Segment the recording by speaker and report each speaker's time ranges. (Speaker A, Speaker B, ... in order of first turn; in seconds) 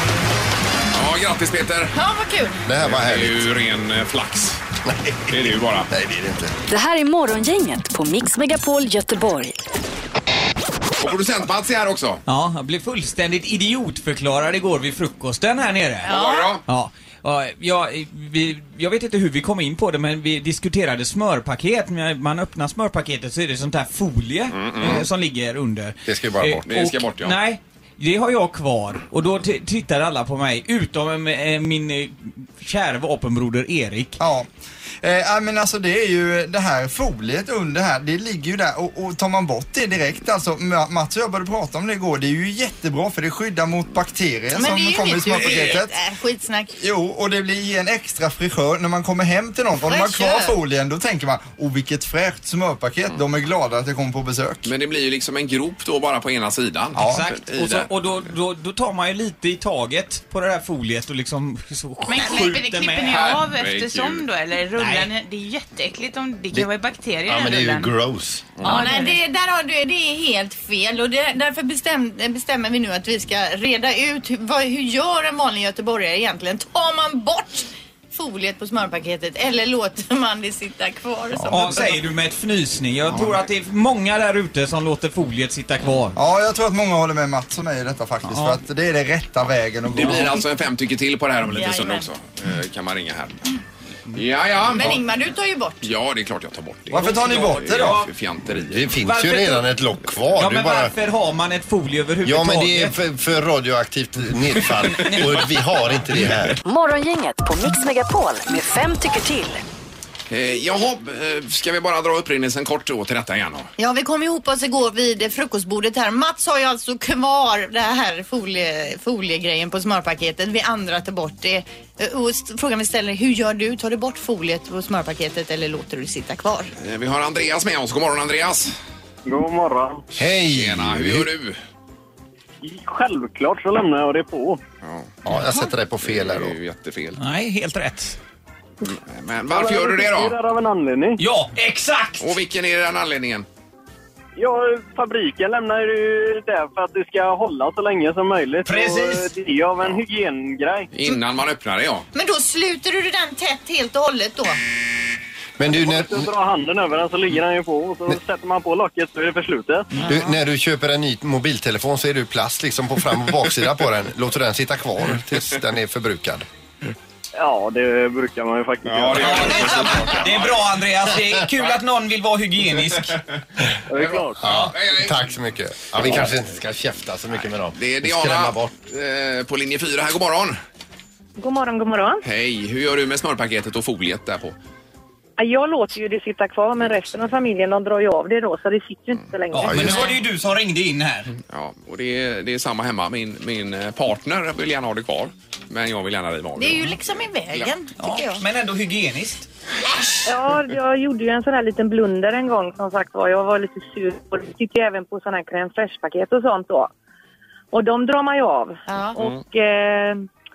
Speaker A: 0.9-2.0, 2.8-4.6, 5.3-5.9, 11.0-12.2, 16.1-16.6, 24.5-25.1, 26.7-27.4, 54.6-58.1, 63.0-64.3, 68.6-68.9, 89.9-93.4, 94.1-95.0, 95.8-98.9, 110.3-113.7, 126.8-128.7, 130.5-131.6, 134.8-135.1, 136.0-137.2, 138.8-140.4, 142.2-143.5, 150.9-152.1, 168.8-170.7, 173.9-175.2, 176.0-176.3, 177.4-180.6, 182.2-184.6, 191.5-197.0
Speaker B: 1.9-2.6, 16.0-16.6, 44.5-46.7, 49.8-50.6, 68.7-82.0, 91.5-92.1, 94.7-95.9, 113.8-126.7, 152.1-154.6, 196.6-198.4, 208.9-209.2
Speaker C: 2.6-3.5, 4.8-6.5, 26.1-26.7, 67.2-68.5, 98.5-100.9, 102.2-106.6, 130.2-131.3, 135.2-136.6, 155.6-156.3, 160.0-166.5, 174.4-178.7, 189.6-190.2
Speaker D: 6.7-9.6, 106.7-109.6
Speaker E: 12.3-34.2, 57.0-63.2, 64.8-65.2, 81.5-86.2, 88.2-88.6, 97.0-98.1, 99.0-99.7, 100.3-103.0, 137.2-138.2, 141.2-142.4, 148.6-149.3, 169.1-173.2, 189.5-191.4, 198.0-199.5
Speaker F: 34.2-34.5, 35.0-46.0, 46.8-54.7, 57.0-57.2, 81.3-81.8, 86.1-90.4, 96.9-98.0
Speaker G: 62.1-68.0, 68.6-69.2
Speaker H: 129.3-130.0, 132.6-134.6, 139.5-141.2, 144.4-150.9, 155.6-160.0, 167.4-170.3, 173.9-174.5
Speaker I: 181.4-182.2, 185.4-189.7, 200.3-206.9, 207.7-210.2